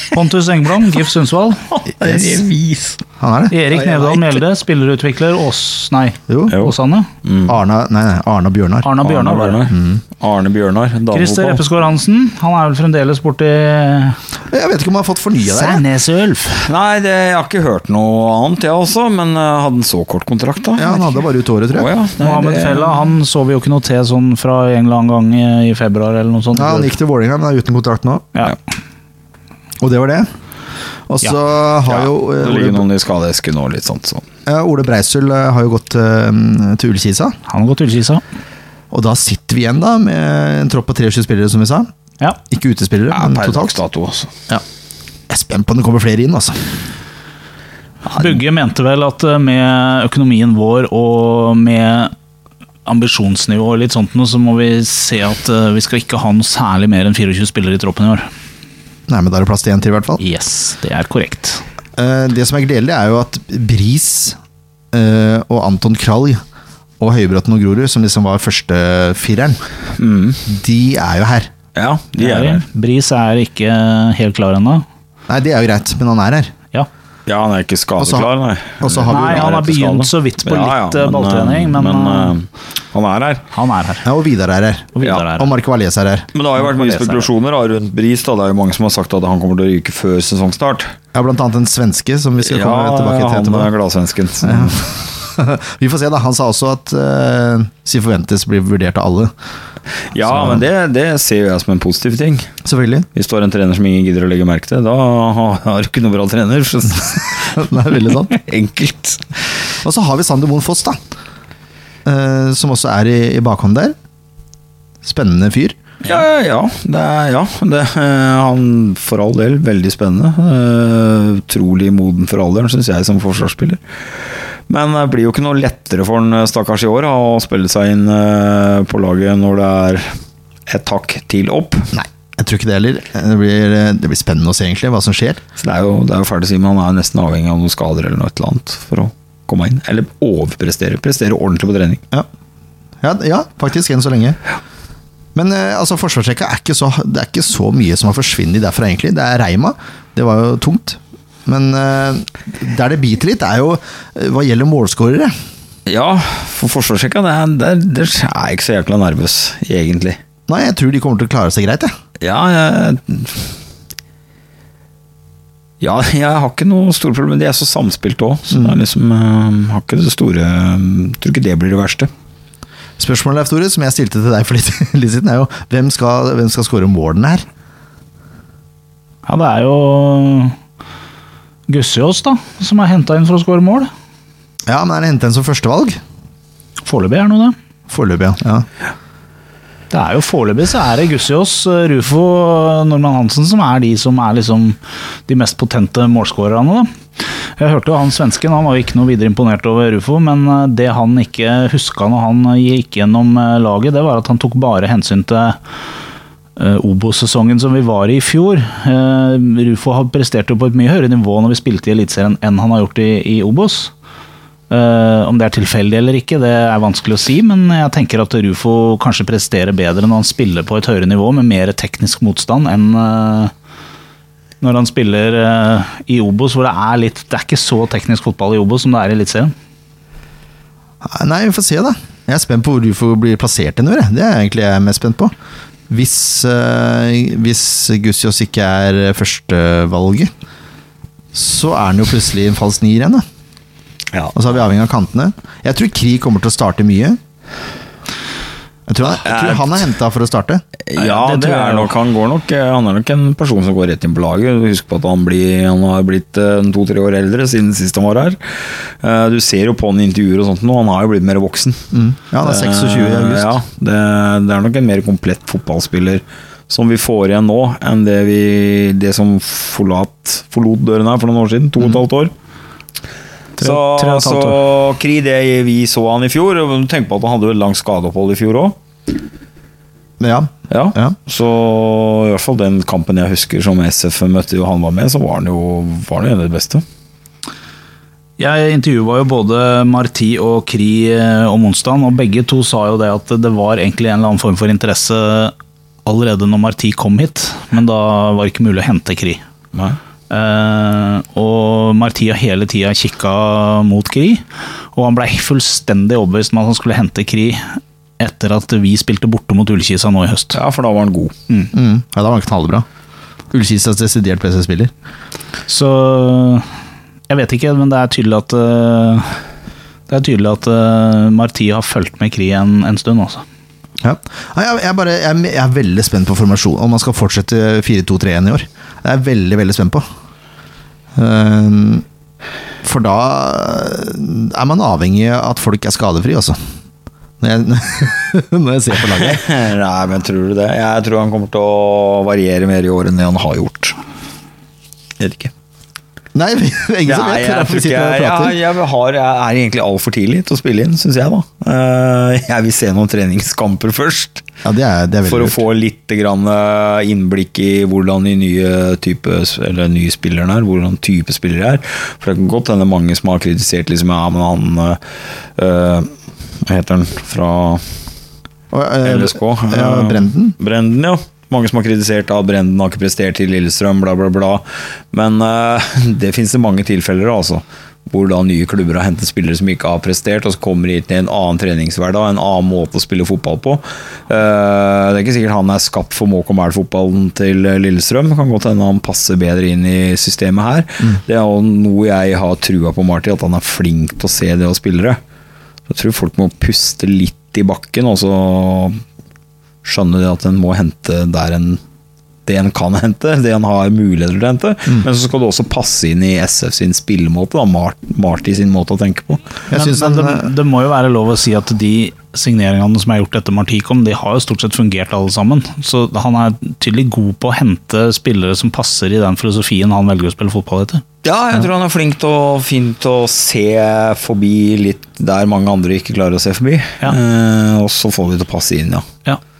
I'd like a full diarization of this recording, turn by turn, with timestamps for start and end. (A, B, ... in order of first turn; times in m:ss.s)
0:00.1-0:01.6 A
0:01.7-0:03.0 B
0:03.2-0:03.5 C
0:03.5-0:07.1 A
0:03.7-0:04.4 B
0:06.3-0:06.6 C
0:06.5-0:07.6 B
0:07.5-0:08.9 C
0:08.8-0:09.7 A
0:09.0-0:11.6 B
0:09.7-0:10.0 C
0:11.1-0:14.2 A
0:14.5-0:15.8 C
0:15.4-0:16.6 A
0:16.6-0:21.1 B
0:20.8-0:21.9 C
0:21.7-0:23.0 B
0:22.2-0:26.9 A
0:26.5-0:28.3 C
0:29.8-0:30.3 C
0:31.1-0:32.8 C
0:31.8-0:34.2 B
0:34.4-0:37.4 C
0:37.5-0:38.2 A
0:38.9-0:41.9 C
0:42.5-0:43.8 C
0:43.1-0:44.3 B
0:45.3-0:46.7 C
0:48.1-0:52.1 A
0:52.8-0:58.3 A
0:59.1-1:00.2 C
1:00.2-1:01.6 A
1:02.0-1:04.4 C
1:04.9-1:06.4 C
1:07.0-1:09.6 C
1:10.0-1:10.4 B
1:10.4-1:11.5 C
1:11.7-1:12.6 B
1:12.2-1:14.8 A
1:15.3-1:16.5 C
1:17.3-1:23.4 B
1:18.0-1:18.3 C
1:18.8-1:19.5 C
1:19.1-1:22.3 A
1:23.5-1:24.0 A
1:24.0-1:26.3 C
1:25.0-1:25.5 A
1:26.3-1:30.9 B
1:26.6-1:27.3 A
1:31.1-1:33.7 C
1:32.4-1:34.8 B
1:34.4-1:39.3 C
1:40.1-1:42.5 B
1:40.2-1:40.6 C
1:42.6-1:43.1 C
1:43.1-1:47.6 B
1:47.5-1:48.4 C
1:48.3-1:49.3 B
1:49.8-1:51.0 C
1:52.0-1:54.0 C
1:55.0-1:55.8 C
1:56.0-2:03.8 B
2:04.7-2:10.1 B
2:10.7-2:11.9 B
2:11.9-2:15.4 C
2:15.6-2:22.0 B
2:23.0-2:24.4 C
2:25.3-2:35.3 C
2:35.8-2:40.2 B
2:40.5-2:41.9 C
2:42.2-2:43.5 B
2:45.8-2:52.1 B
2:48.5-2:48.8 C
2:53.0-2:57.4 C
2:59.3-3:00.5 A
3:01.7-3:03.9 A
3:04.7-3:06.0 C
3:06.8-3:07.5 A
3:07.9-3:08.7 C
3:09.9-3:16.9 A
3:17.6-3:25.6 A
3:26.6-3:33.9 A
3:34.7-3:43.5 A
3:44.6-3:49.5 A
3:51.0-3:55.3 C
3:55.9-4:00.3 C
4:01.3-4:03.2 C
4:04.3-4:07.2 C
4:08.9-4:10.6 C
4:09.2-4:09.9 B
4:10.9-4:21.9 B
4:11.0-4:11.9 A
4:21.9-4:23.5 C
4:22.4-4:32.3 B
4:33.6-4:34.6 A
4:33.6-4:38.8 B
4:40.2-4:41.2 C
4:40.7-4:46.8 B
4:48.4-4:59.4 A
5:00.3-5:04.4 A
5:04.9-5:10.6 A
5:10.5-5:11.3 B
5:11.7-5:12.8 C
5:13.5-5:14.9 C
5:15.7-5:16.6 A
5:17.3-5:19.4 A
5:20.1-5:23.4 A
5:24.0-5:30.0 C
5:31.1-5:32.0 C
5:32.8-5:36.6 C
5:37.4-5:39.4 C
5:39.2-5:44.0 B
5:45.2-5:45.5 B
5:46.3-5:48.6 C
5:47.0-5:54.4 B
5:54.6-5:55.6 C
5:55.2-6:05.0 B
6:05.6-6:06.1 B
6:06.6-6:07.8 B
6:08.7-6:10.6 C
6:09.0-6:35.2 B
6:35.9-6:39.0 B
6:39.8-6:41.8 B
6:42.4-6:49.4 B
6:49.7-6:50.5 C
6:49.7-7:01.0 A
7:01.2-7:09.0 B